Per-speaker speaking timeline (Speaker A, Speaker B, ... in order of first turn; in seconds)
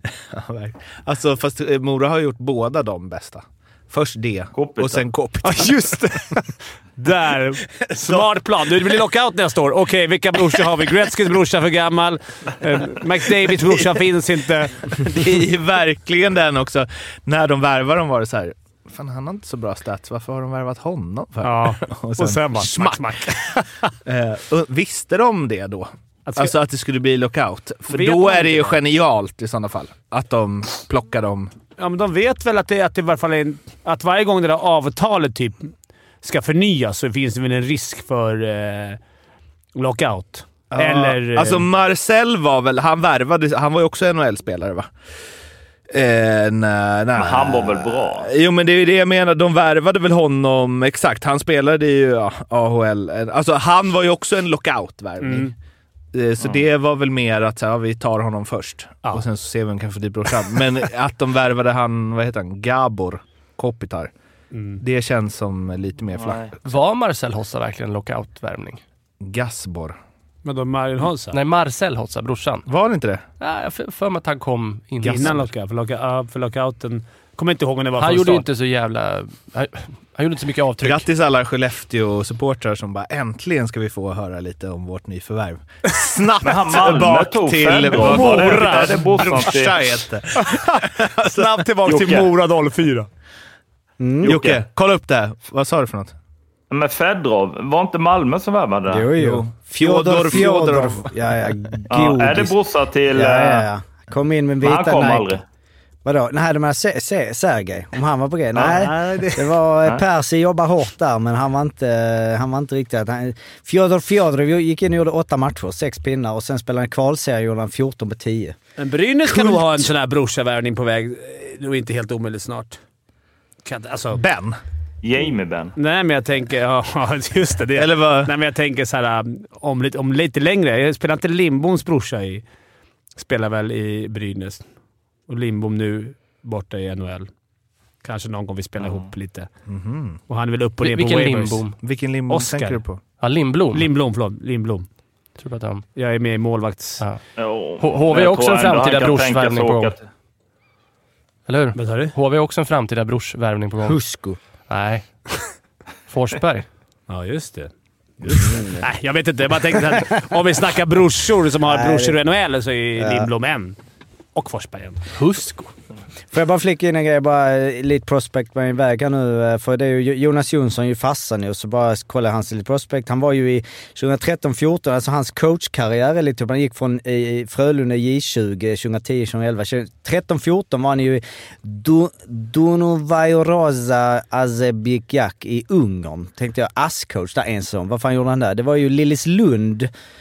Speaker A: 0.3-6.0, 7.9-8.3, 15.0-23.4, 24.1-31.5, 40.7-44.9, 45.9-55.5, 56.1-64.1, 64.8-66.5, 69.2-70.0, 72.7-73.2, 75.0-75.3, 80.8-91.5, 94.2-96.1, 99.2-101.1, 124.2-124.6, 127.8-128.3, 139.7-140.2, 141.8-143.0
Speaker B: 4.5-5.1, 47.2-48.3, 86.4-89.9, 91.9-92.3, 94.2-94.6, 96.7-99.1, 101.9-103.7, 104.6-105.4, 125.0-125.7, 147.4-150.0
Speaker C: 5.4-15.1, 21.4-23.9, 26.3-26.5, 27.9-28.8, 31.8-39.0, 39.8-41.7, 55.2-55.5, 64.5-64.8, 70.5-71.4, 75.0-78.5, 88.0-89.2, 90.4-93.1, 108.6-109.5, 118.8-122.8, 123.7-124.2, 125.8-132.4, 133.2-134.6, 135.3-137.3, 138.0-139.5, 140.3-141.7, 142.3-142.8, 143.7-144.9, 146.0-147.0, 151.8-152.1, 157.1-163.8, 164.3-165.2
Speaker D: 66.6-68.8, 71.3-72.7, 73.4-75.5, 78.0-81.1, 140.8-141.8, 143.2-143.9, 145.4-145.8, 147.8-150.0, 151.5-154.0, 154.7-155.1, 156.1-156.7, 165.2-165.7
Speaker E: 94.0-94.4, 98.9-102.5, 103.1-105.4, 106.0-118.6, 153.8-154.4, 158.4-158.8, 161.7-162.2, 163.0-163.3, 166.3-189.9